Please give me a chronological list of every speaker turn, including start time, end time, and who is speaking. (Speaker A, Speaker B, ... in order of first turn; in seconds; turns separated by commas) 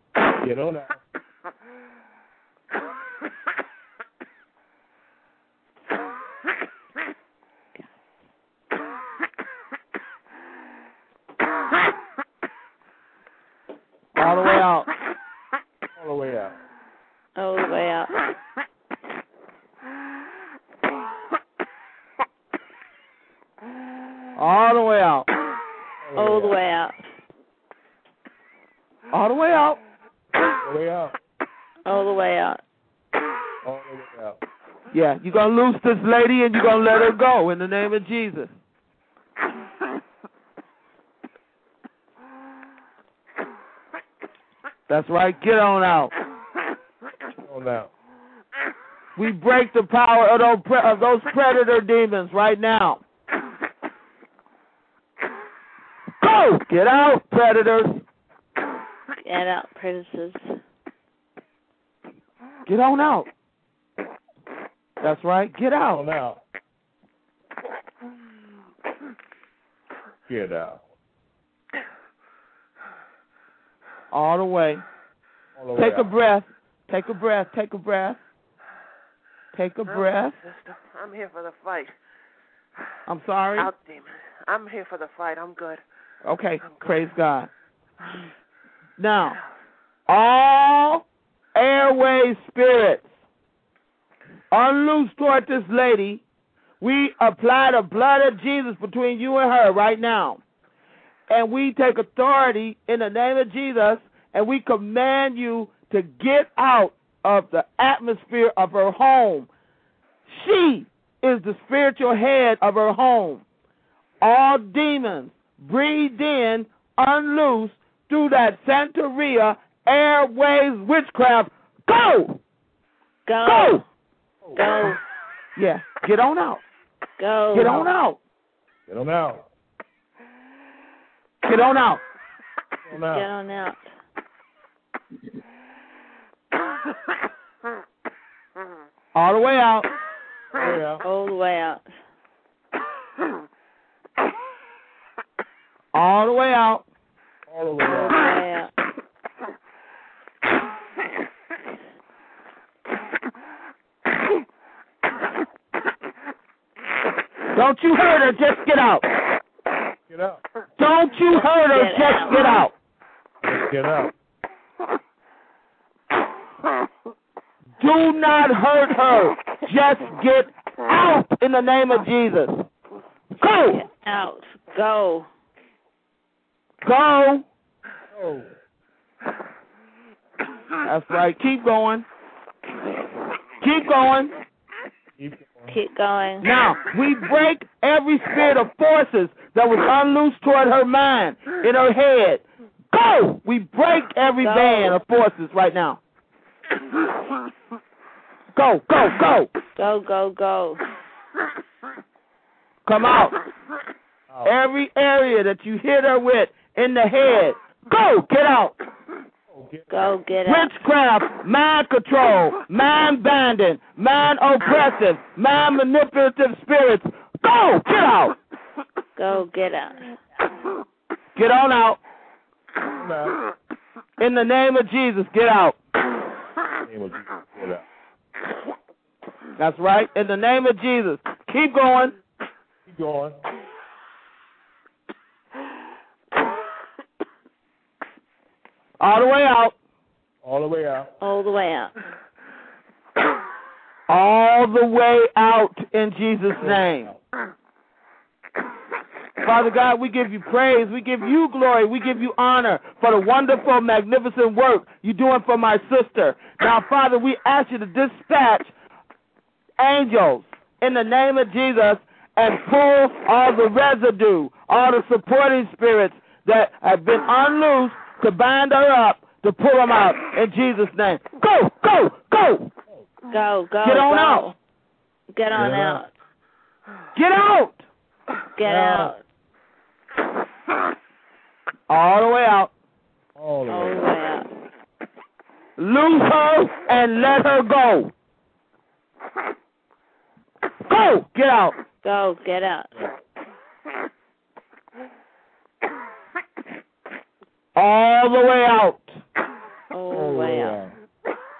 Speaker A: 0.4-1.0, Speaker B: 14.2-14.9, Speaker A: 16.0-16.6, Speaker C: 17.4-18.1, Speaker B: 24.4-25.3, Speaker A: 26.0-26.6, Speaker C: 26.2-26.9, Speaker B: 29.1-29.8, Speaker A: 30.6-31.1, Speaker C: 31.9-32.6, Speaker A: 33.6-34.4, Speaker B: 34.9-38.5, Speaker B: 44.9-46.1, Speaker A: 47.4-47.9, Speaker B: 49.2-53.0, Speaker B: 56.2-58.0, Speaker C: 59.2-60.6, Speaker B: 62.7-63.3, Speaker B: 65.0-66.0, Speaker A: 65.8-66.4, Speaker A: 70.3-70.8, Speaker B: 74.1-74.8, Speaker A: 75.5-76.1, Speaker B: 75.8-78.2, Speaker B: 79.5-80.4, Speaker D: 79.9-82.0, Speaker B: 83.1-83.7, Speaker D: 83.6-85.8, Speaker B: 86.2-87.5, Speaker D: 86.6-86.9, Speaker B: 89.0-89.4, Speaker B: 90.1-93.1, Speaker B: 94.5-96.2, Speaker B: 96.8-100.4, Speaker B: 101.3-109.5, Speaker B: 110.3-113.4, Speaker B: 114.2-122.4, Speaker C: 123.3-123.8, Speaker B: 123.5-123.8, Speaker A: 124.4-125.0, Speaker C: 124.6-125.0, Speaker B: 125.6-126.6, Speaker C: 127.2-127.9, Speaker B: 127.5-128.2, Speaker A: 128.9-129.5, Speaker B: 131.4-132.0, Speaker A: 132.9-133.3, Speaker C: 132.9-133.8, Speaker B: 139.2-139.9, Speaker A: 140.6-141.0, Speaker C: 141.0-141.8, Speaker B: 145.9-146.8, Speaker A: 147.5-148.3, Speaker C: 147.9-148.7, Speaker B: 157.5-159.1, Speaker A: 160.1-160.4, Speaker B: 160.8-162.7, Speaker C: 161.7-162.5, Speaker A: 163.4-164.1, Speaker B: 167.8-172.6, Speaker B: 173.4-173.8, Speaker C: 173.7-175.3, Speaker B: 176.8-177.5, Speaker A: 178.1-178.5, Speaker B: 180.8-182.1, Speaker B: 183.6-184.3, Speaker A: 185.2-185.8, Speaker C: 185.7-186.5, Speaker B: 186.4-196.0, Speaker C: 194.4-195.0, Speaker B: 198.6-199.5, Speaker C: 199.8-200.8, Speaker B: 202.9-203.4, Speaker B: 204.4-208.8, Speaker A: 209.5-210.2, Speaker C: 209.9-210.7, Speaker B: 210.4-218.4, Speaker C: 219.2-220.2, Speaker B: 221.3-222.0, Speaker A: 222.9-223.4, Speaker B: 224.2-225.8, Speaker A: 226.8-227.8, Speaker B: 229.6-232.2, Speaker A: 232.9-233.4, Speaker B: 239.0-239.8, Speaker A: 240.4-241.1, Speaker C: 241.2-241.9, Speaker B: 244.1-247.1, Speaker A: 246.6-247.2, Speaker B: 249.4-258.7, Speaker B: 259.8-272.7, Speaker C: 273.3-274.6, Speaker B: 273.8-274.5, Speaker C: 275.3-276.1, Speaker A: 275.5-276.0, Speaker B: 277.1-277.9, Speaker C: 278.6-279.2, Speaker A: 278.6-279.1, Speaker B: 281.9-282.7, Speaker A: 283.4-284.2, Speaker C: 283.7-284.5, Speaker B: 285.8-288.1, Speaker B: 290.9-291.8, Speaker C: 292.0-292.9, Speaker B: 297.8-299.2, Speaker C: 299.9-300.8, Speaker A: 300.1-300.9